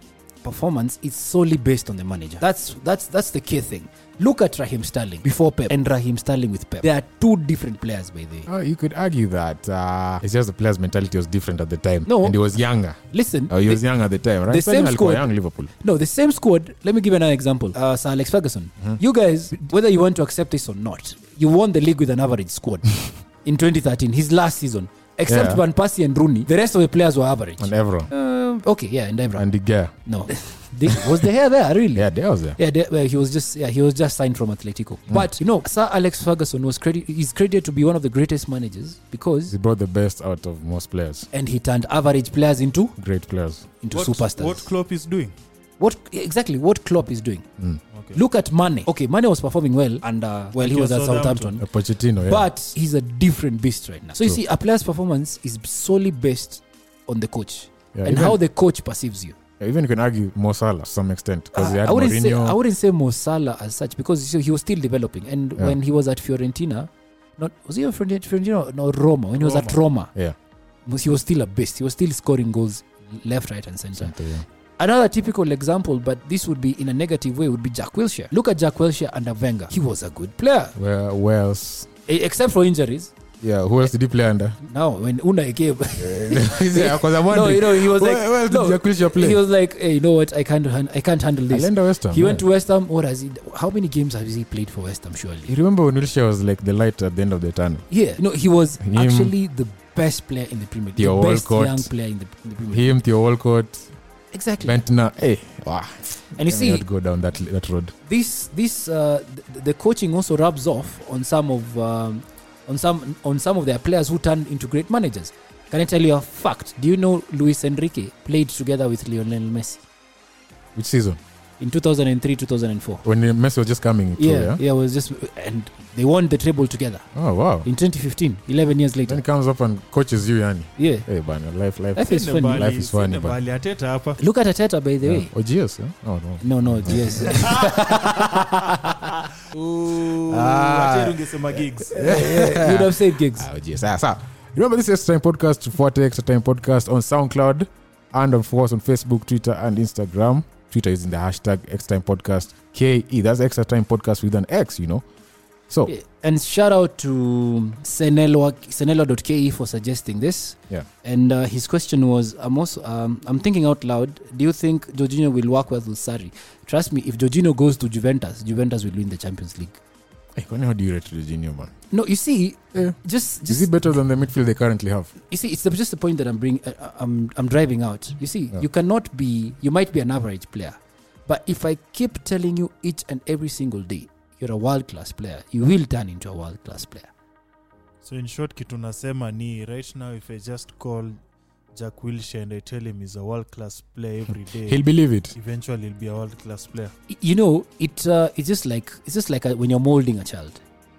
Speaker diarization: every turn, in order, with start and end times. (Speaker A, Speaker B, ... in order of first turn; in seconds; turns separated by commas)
Speaker A: 0.4-8.5, Speaker B: 8.5-15.7, Speaker A: 12.1-12.4, Speaker A: 13.0-13.8, Speaker A: 14.5-29.4, Speaker B: 25.3-25.6, Speaker B: 27.6-28.1, Speaker B: 29.4-29.9, Speaker A: 30.1-39.5, Speaker B: 30.9-31.2, Speaker B: 31.9-32.6, Speaker B: 39.5-41.3, Speaker A: 41.3-43.0, Speaker B: 43.0-43.7, Speaker A: 43.8-44.7, Speaker C: 43.9-45.3, Speaker A: 45.8-47.5, Speaker C: 47.9-48.2, Speaker A: 48.1-51.6, Speaker C: 50.5-51.6, Speaker B: 51.6-52.5, Speaker A: 52.2-59.4, Speaker B: 57.9-58.4, Speaker B: 59.6-62.6, Speaker A: 61.5-70.1, Speaker A: 70.9-74.2, Speaker B: 74.0-74.5, Speaker A: 74.8-80.8, Speaker B: 80.8-81.9, Speaker A: 82.1-83.1, Speaker B: 83.4-84.6, Speaker A: 84.6-95.5, Speaker B: 86.0-89.4, Speaker B: 91.5-92.4, Speaker B: 95.5-97.9, Speaker A: 97.9-103.0, Speaker B: 98.8-99.3, Speaker B: 101.0-101.9, Speaker B: 102.7-103.9, Speaker A: 104.3-104.8, Speaker B: 104.6-107.9, Speaker A: 106.4-106.8, Speaker A: 108.1-119.8, Speaker B: 120.8-121.2, Speaker A: 121.6-123.0, Speaker B: 123.0-124.6, Speaker A: 124.2-127.1, Speaker B: 127.2-127.7, Speaker A: 127.6-129.2, Speaker B: 129.1-133.4, Speaker A: 130.8-131.1, Speaker A: 131.9-132.7, Speaker C: 132.1-134.2, Speaker A: 134.2-135.3, Speaker B: 135.0-137.5, Speaker A: 136.4-138.8, Speaker C: 137.3-138.0, Speaker C: 139.5-142.2, Speaker B: 140.3-155.1, Speaker A: 142.0-143.5, Speaker A: 155.9-169.8, Speaker B: 170.4-171.7, Speaker A: 171.9-173.7, Speaker B: 172.7-175.1, Speaker A: 175.3-187.1, Speaker C: 188.0-191.2, Speaker C: 191.8-196.9, Speaker B: 194.7-195.3, Speaker A: 197.1-200.6